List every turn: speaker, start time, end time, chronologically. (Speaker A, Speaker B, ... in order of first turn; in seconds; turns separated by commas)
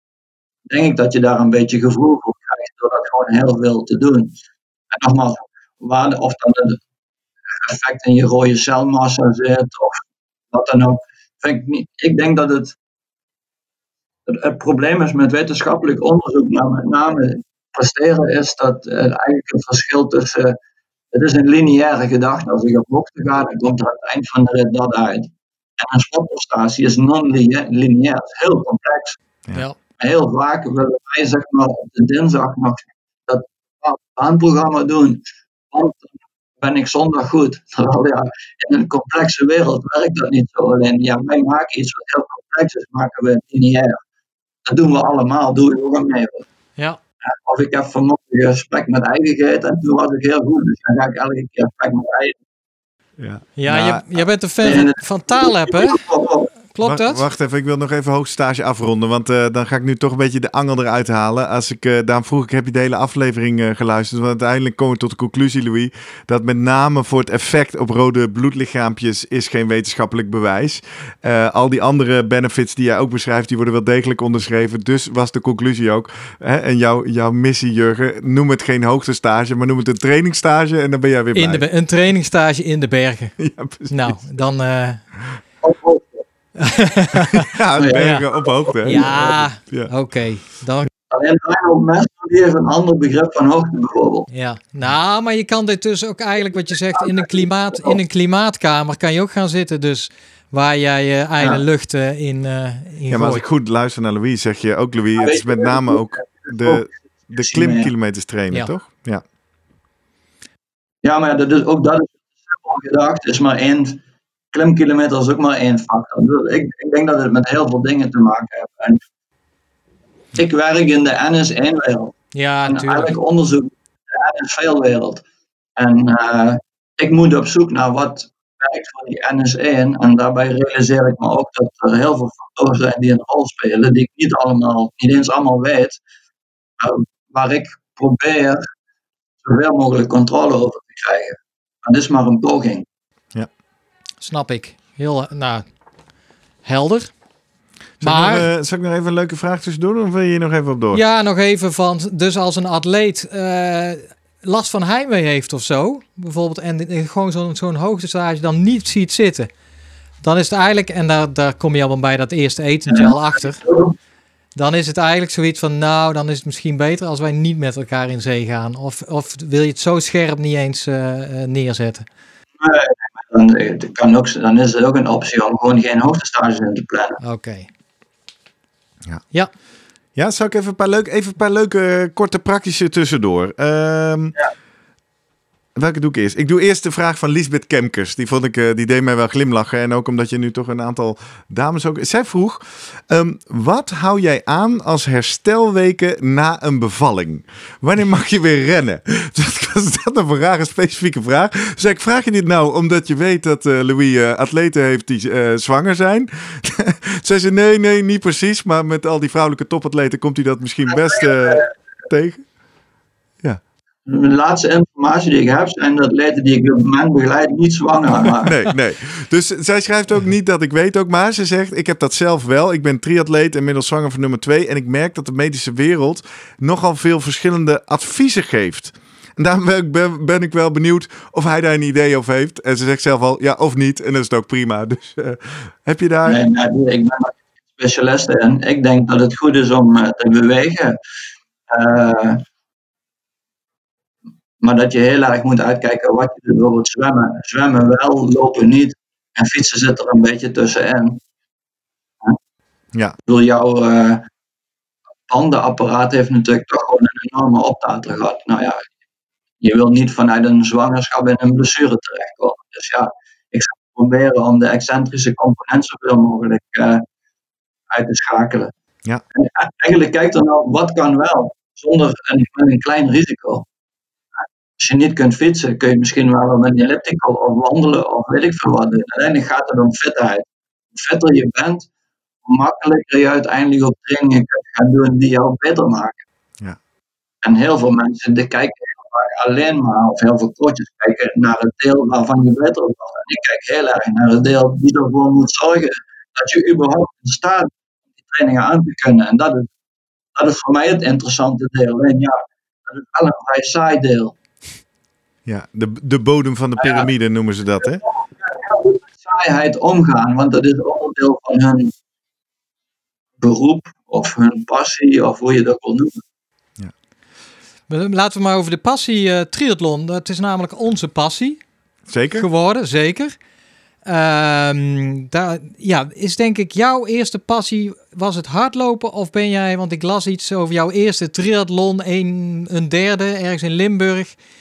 Speaker A: 0.7-4.3, Speaker A: 4.9-6.8, Speaker A: 7.5-10.0, Speaker A: 10.5-12.8, Speaker A: 14.3-20.6, Speaker A: 21.1-29.2, Speaker A: 30.0-44.0, Speaker A: 44.6-46.5, Speaker A: 47.2-52.4, Speaker B: 53.2-54.2, Speaker C: 53.6-56.0, Speaker A: 54.6-56.5, Speaker C: 56.7-57.2, Speaker B: 56.8-81.7, Speaker C: 81.3-83.4, Speaker B: 83.4-84.3, Speaker C: 83.9-85.0, Speaker A: 85.6-86.2, Speaker C: 86.5-88.2, Speaker B: 87.3-89.9, Speaker A: 87.8-89.4, Speaker C: 88.8-90.9, Speaker A: 91.1-94.3, Speaker C: 94.3-103.5, Speaker A: 96.7-98.0, Speaker B: 103.1-109.2, Speaker A: 105.2-107.9, Speaker A: 111.0-119.0, Speaker A: 120.3-125.2, Speaker C: 122.3-123.1, Speaker A: 125.8-136.0, Speaker A: 136.8-138.6, Speaker A: 139.4-142.8, Speaker C: 144.2-145.6, Speaker C: 146.6-147.1, Speaker B: 148.0-151.0, Speaker C: 148.0-148.5, Speaker C: 150.9-159.5, Speaker C: 160.2-163.6, Speaker A: 162.9-163.9, Speaker C: 164.5-172.1, Speaker A: 172.6-177.2, Speaker C: 177.2-177.7, Speaker B: 180.1-184.3, Speaker B: 185.8-212.4, Speaker A: 210.9-211.7, Speaker A: 214.1-218.5, Speaker B: 218.4-236.4, Speaker A: 236.2-241.0, Speaker A: 241.7-242.4, Speaker A: 244.6-251.2, Speaker A: 253.2-254.3, Speaker A: 255.3-258.9, Speaker A: 259.6-267.0, Speaker A: 267.9-268.7, Speaker A: 269.3-273.7, Speaker A: 274.8-281.9, Speaker A: 282.4-286.2, Speaker A: 287.4-297.7, Speaker A: 298.2-299.7, Speaker A: 300.4-304.3, Speaker B: 305.4-308.0, Speaker A: 306.8-307.1, Speaker A: 307.8-311.9, Speaker A: 313.4-316.2, Speaker C: 317.9-321.6, Speaker B: 322.1-322.5, Speaker C: 322.4-323.4, Speaker C: 324.0-334.4